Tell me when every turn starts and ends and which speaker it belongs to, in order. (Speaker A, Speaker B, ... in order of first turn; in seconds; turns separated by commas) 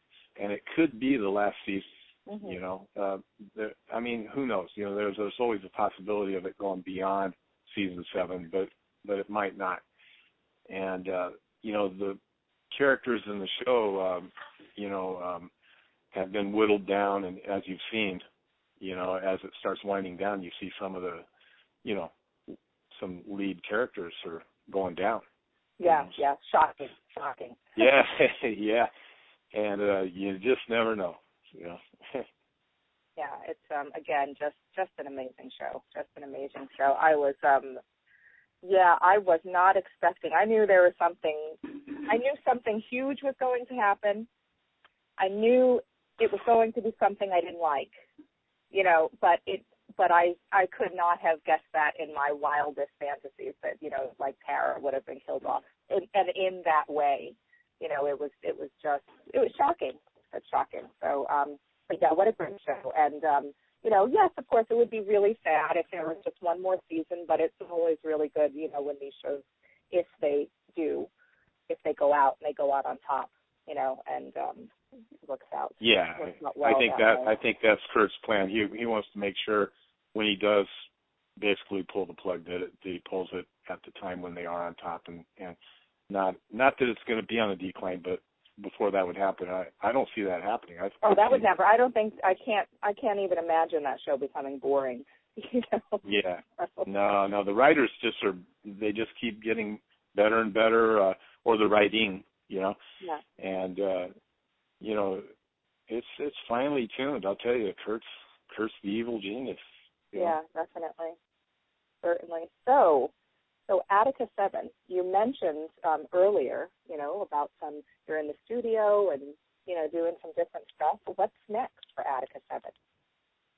Speaker A: 0.4-1.9, Speaker B: 2.3-2.6, Speaker A: 2.4-9.8, Speaker A: 10.7-12.2, Speaker A: 12.7-15.5, Speaker A: 16.1-18.2, Speaker A: 18.8-21.2, Speaker A: 21.8-25.2, Speaker B: 25.8-27.6, Speaker A: 25.9-26.1, Speaker A: 27.8-28.9, Speaker A: 29.5-32.3, Speaker B: 33.2-37.8, Speaker B: 38.6-44.3, Speaker B: 45.2-48.0, Speaker B: 48.7-71.1, Speaker B: 71.7-74.7, Speaker B: 75.2-77.3, Speaker A: 75.8-80.7, Speaker A: 81.4-85.6, Speaker A: 86.1-91.5, Speaker B: 91.0-96.0, Speaker A: 96.0-102.8, Speaker B: 96.6-96.9, Speaker A: 103.4-104.1, Speaker A: 104.8-105.3, Speaker A: 105.9-110.4, Speaker B: 110.1-111.2, Speaker B: 112.0-113.1, Speaker B: 113.7-122.8